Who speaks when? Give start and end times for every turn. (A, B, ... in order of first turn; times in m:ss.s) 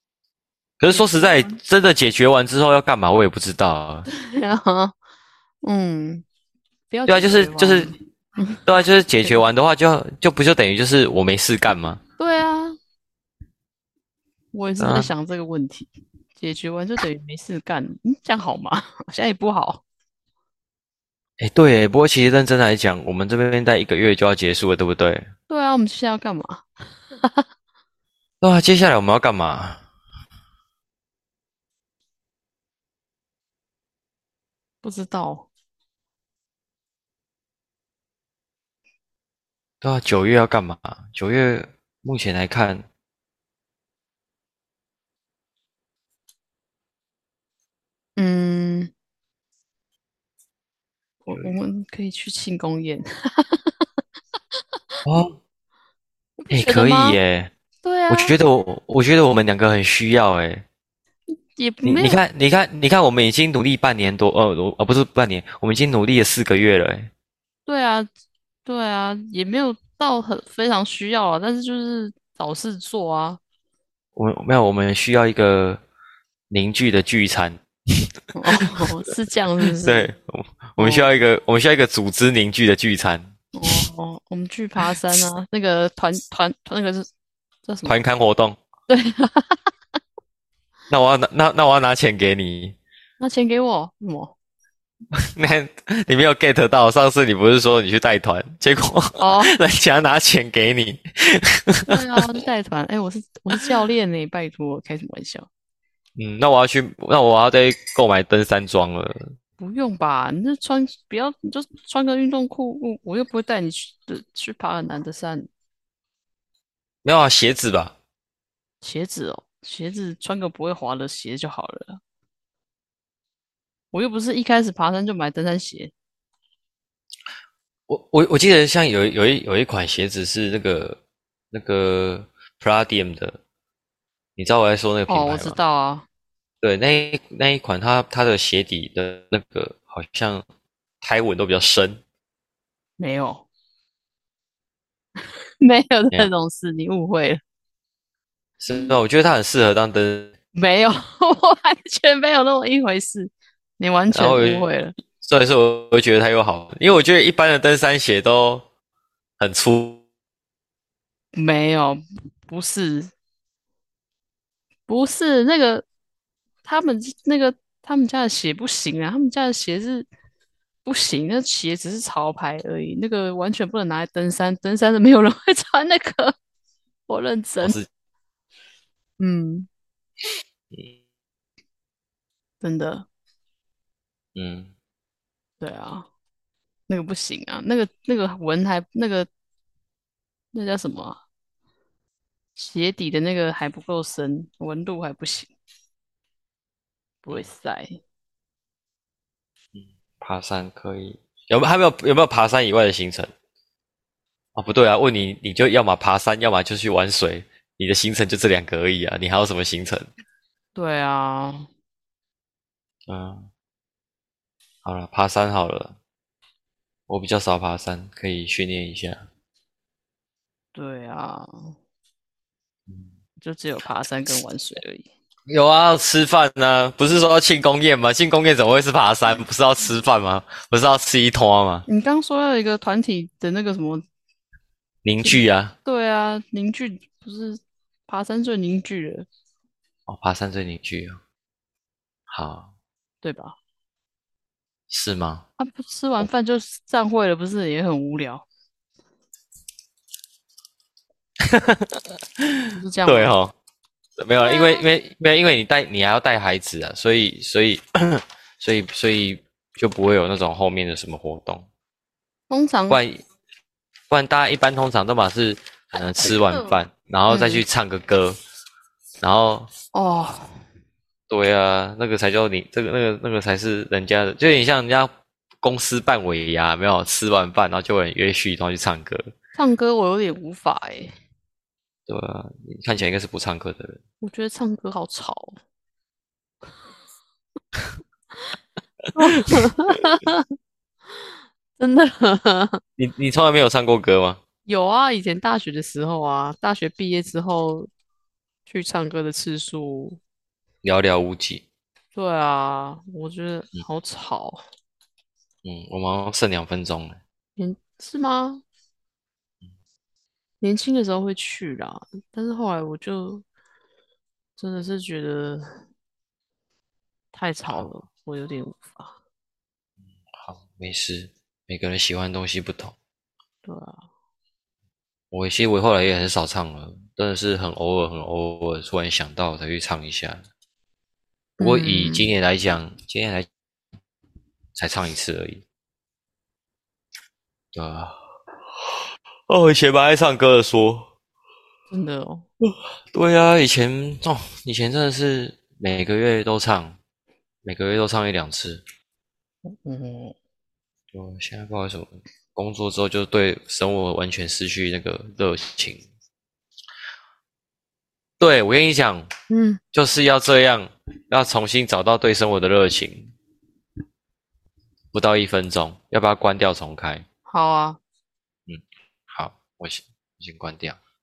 0:00.8-0:04.1 A
0:00.9-0:01.6 B
0:04.1-0:04.9 B
0:05.6-0:06.2 B
0:06.9-0:08.6 B
0:07.1-0:07.9 A
0:08.7-0:12.0 A
0:12.2-0:12.8 B
0:14.5-0:19.8 B
0:14.8-0:15.1 A
0:21.4-0:25.3 A
0:25.5-0:27.4 B
0:28.4-0:29.8 A
0:34.8-0:35.5 B
0:39.8-0:42.9 A
0:48.2-0:48.9 B
0:51.2-0:53.8 B
0:55.0-0:55.4 A
0:56.4-0:57.2 B
0:56.5-0:57.5 A
0:57.8-0:58.4 B
0:58.1-1:00.6 A
1:01.6-1:02.2 B
1:01.8-1:07.1 A
1:07.7-1:08.1 B
1:08.6-1:13.4 B
1:14.2-1:15.8 A
1:16.5-1:18.1 A
1:18.4-1:20.0 B
1:19.7-1:23.8 A
1:20.8-1:21.1 B
1:23.5-1:27.1 B
1:27.7-1:27.9 B
1:27.8-1:28.6 A
1:28.9-1:29.7 B
1:30.9-1:32.8 A
1:33.2-1:34.3 B
1:35.1-1:42.3 A
1:39.2-1:39.5 B
1:41.9-1:45.5 B
1:46.2-1:49.3 A
1:49.6-1:55.5 B
1:57.0-1:58.0 A
1:58.8-2:02.0 B
2:03.9-2:05.9 B
2:07.9-2:11.0 A
2:11.5-2:13.4 A
2:14.4-2:15.6 A
2:15.1-2:16.1 B
2:16.6-2:20.4 A
2:21.0-2:22.0 A
2:23.0-2:23.5 B
2:25.6-2:27.4 B
2:28.6-2:30.3 A
2:30.5-2:34.9 B
2:34.1-2:34.7 A
2:35.2-2:38.7 A
2:39.4-2:40.0 A
2:41.3-2:43.1 B
2:44.9-2:45.9 B
2:46.6-2:50.1 B
2:50.9-2:56.3 B
2:57.1-2:57.8 B
2:57.6-2:57.9 A
2:59.2-2:59.7 B
3:02.6-3:03.1 B
3:04.4-3:04.7 A
3:05.6-3:06.1 B
3:06.9-3:09.3 B
3:10.5-3:11.2 B
3:12.6-3:15.5 B
3:17.2-3:18.0 B
3:19.7-3:23.3 A
3:24.6-3:30.1 A
3:30.8-3:31.7 B
3:33.1-3:33.5 A
3:34.8-3:36.0 A
3:37.1-3:39.2 A
3:40.8-3:41.7 B
3:43.4-3:45.1 B
3:45.5-3:51.9 A
3:51.9-3:54.0 B
3:55.0-3:55.8 A
3:55.2-3:59.3 B
4:00.1-4:01.2 A
4:02.3-4:02.7 A
4:03.2-4:03.6 B
4:04.9-4:05.4 A
4:05.6-4:08.5 B
4:11.4-4:13.5 A
4:12.7-4:13.4 B
4:14.2-4:21.7 A
4:14.4-4:14.8 B
4:22.5-4:23.0 B
4:22.9-4:23.2 A
4:24.1-4:28.4 A
4:27.3-4:27.6 B
4:29.2-4:29.7 A
4:29.9-4:30.6 B
4:31.3-4:39.3 A
4:39.6-4:41.1 B
4:42.1-4:44.0 A
4:44.2-4:45.6 B
4:49.2-4:50.5 B
4:51.8-4:52.8 B
4:53.0-4:54.4 A
4:54.7-4:57.9 B
4:58.7-5:00.2 B
5:00.8-5:01.6 A
5:02.2-5:04.6 B
5:05.6-5:07.2 A
5:07.6-5:08.6 B
5:10.6-5:13.4 B
5:14.6-5:15.8 B
5:17.3-5:19.1 B
5:20.3-5:23.0 A
5:23.6-5:24.0 B
5:25.3-5:30.4 A
5:31.6-5:32.3 B
5:31.6-5:33.5 A
5:34.8-5:35.6 A
5:37.7-5:38.2 A
5:39.5-5:41.1 A
5:41.9-5:42.4 B
5:42.6-5:47.0 A
5:47.6-5:48.8 A
5:49.6-5:50.4 B
5:51.1-5:56.0 A
5:58.4-5:59.3 A
5:59.5-5:59.8 B
5:59.9-6:03.3 A
6:05.1-6:07.2 A
6:07.5-6:08.0 B
6:08.7-6:11.0 A